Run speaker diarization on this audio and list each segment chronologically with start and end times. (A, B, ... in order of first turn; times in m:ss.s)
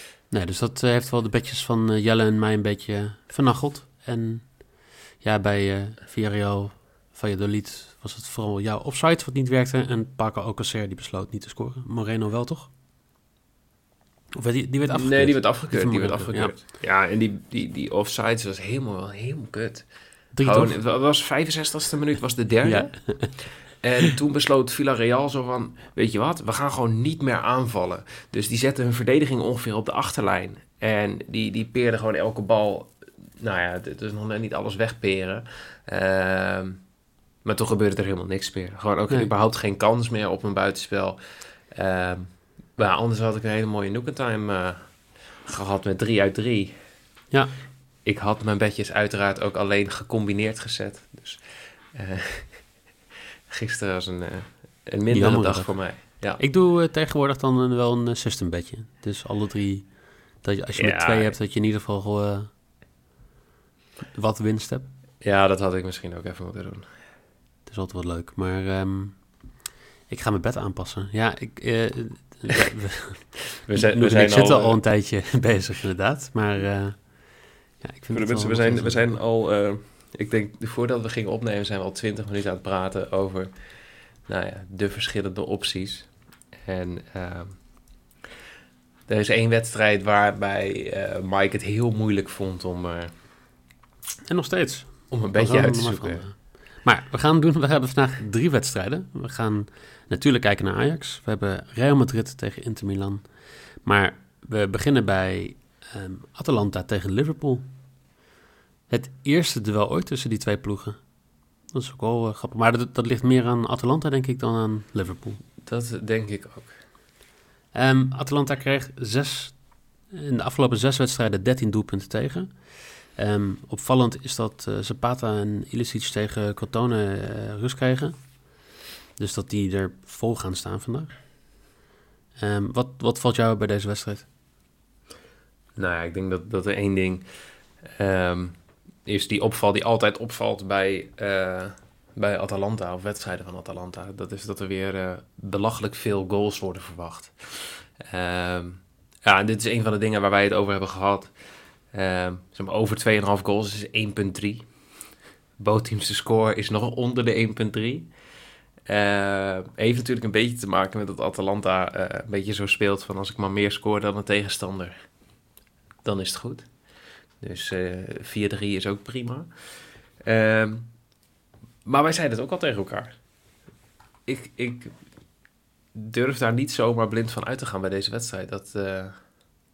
0:00.3-0:12.7 A
0:14.3-0:16.6 A
0:14.9-0:36.9 B
0:20.3-0:20.8 A
0:22.6-0:23.6 A
0:37.4-0:46.8 B
0:48.0-0:52.9 B
0:53.5-0:56.4 B
0:55.1-1:02.5 A
1:00.8-1:01.4 B
1:04.1-1:04.9 A
1:05.2-1:06.8 B
1:07.6-1:19.2 A
1:13.6-1:14.8 B
1:18.1-1:27.8 B
1:29.1-1:33.1 B
1:34.3-1:47.6 A
1:35.1-1:36.2 B
1:48.9-1:55.4 A
1:55.6-1:56.8 B
1:57.7-2:11.4 A
2:12.4-2:14.3 A
2:15.8-2:17.2 B
2:17.8-2:34.9 B
2:35.6-2:38.1 B
2:38.8-2:44.9 B
2:46.0-2:46.7 B
2:47.4-2:51.0 B
2:51.8-2:53.2 B
2:54.2-2:55.0 B
2:55.9-2:59.2 B